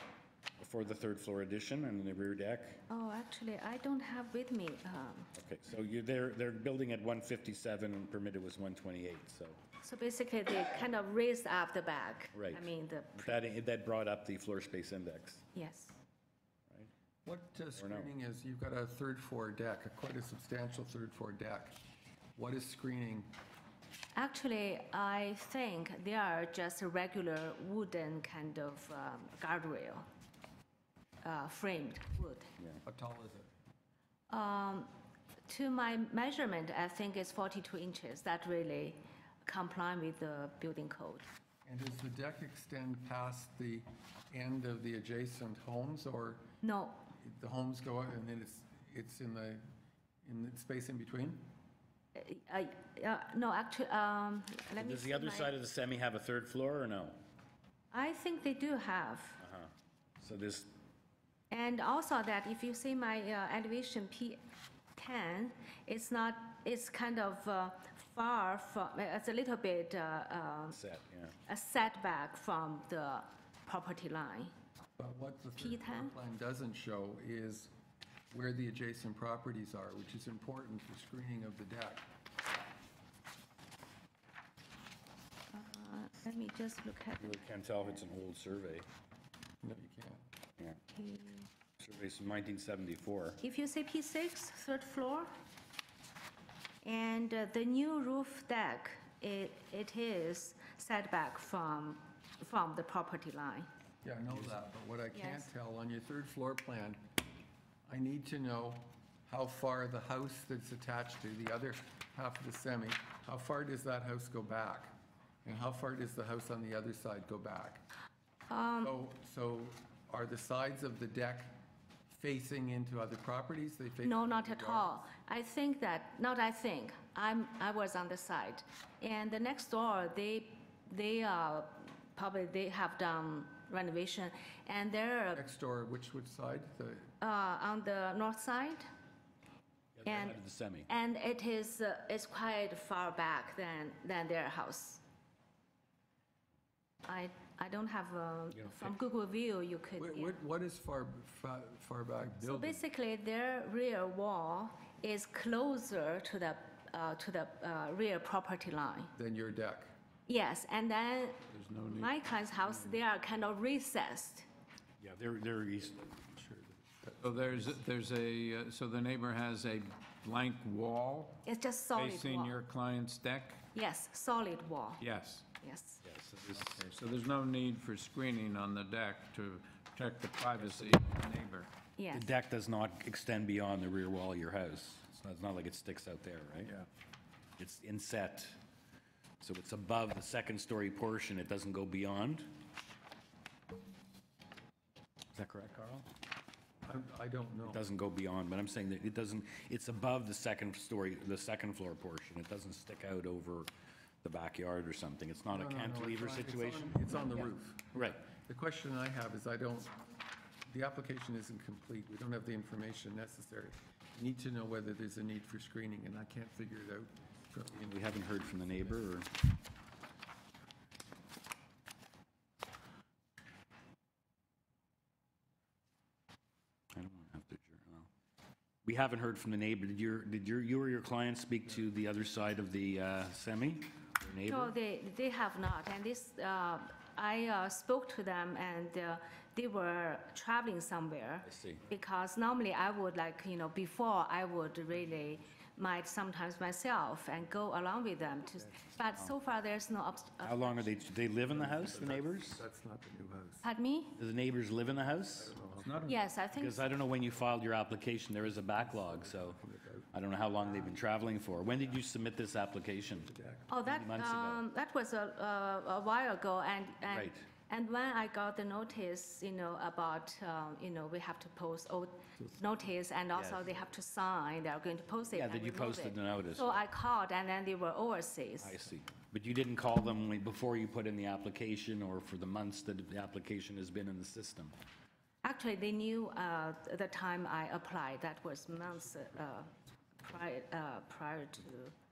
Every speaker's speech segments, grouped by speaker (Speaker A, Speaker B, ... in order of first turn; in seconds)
Speaker A: 0.6-2.8, 5.3-9.6, 12.3-15.4, 17.8-18.1, 54.8-57.2, 59.4-60.7, 70.7-71.4, 87.2-88.9, 91.8-93.4, 139.9-140.9, 148.5-148.9, 165.0-166.4, 176.0-176.8, 180.6-180.9, 182.1-186.8, 187.6-188.6, 189.4-192.5, 195.3-196.1, 197.7-203.7, 204.2-207.1, 207.9-208.2, 217.8-219.3, 226.9-228.1, 228.8-234.7, 241.4-241.8, 250.4-252.6, 254.2-255.6, 256.5-259.6, 260.1-263.3, 263.9-264.6, 267.1-267.4, 273.4-273.7, 275.3-276.8, 278.6-284.7
Speaker B: 2.9-5.3, 9.8-13.4, 15.6-16.0, 24.2-30.1, 31.2-32.5, 34.3-34.9, 35.5-41.3, 46.6-47.0, 52.1-55.5, 57.9-59.4, 61.5-64.4, 65.0-70.8, 71.5-74.5, 75.6-76.1, 85.5-87.4, 90.9-91.5, 93.4-95.3, 96.8-103.7, 105.1-105.5, 118.5-118.9, 124.0-135.4, 137.2-138.9, 140.1-140.4, 140.9-145.0, 147.1-150.4, 152.4-159.1, 160.3-164.5, 171.4-172.6, 173.7-175.0, 175.6-176.0, 182.0-182.3, 234.4-251.0, 253.6-254.2, 256.1-256.9, 263.7-278.8, 285.4-291.9
Speaker C: 17.2-21.8, 22.4-23.3, 32.9-33.5, 41.6-46.5, 47.2-49.6, 50.2-51.4, 75.0-77.7, 78.3-82.1, 89.6-90.2, 104.0-107.0, 107.9-114.9, 115.4-117.8, 118.8-121.6, 122.1-125.0, 135.3-137.1, 150.0-152.8, 159.2-159.9, 166.4-167.7, 196.8-197.8, 205.5-209.9, 210.7-218.2, 251.5-253.7, 255.3-256.1, 258.8-260.9, 263.2-263.7
Speaker D: 161.5-162.2, 167.2-171.4, 171.9-173.6, 175.0-175.5, 176.6-181.7, 255.8-256.2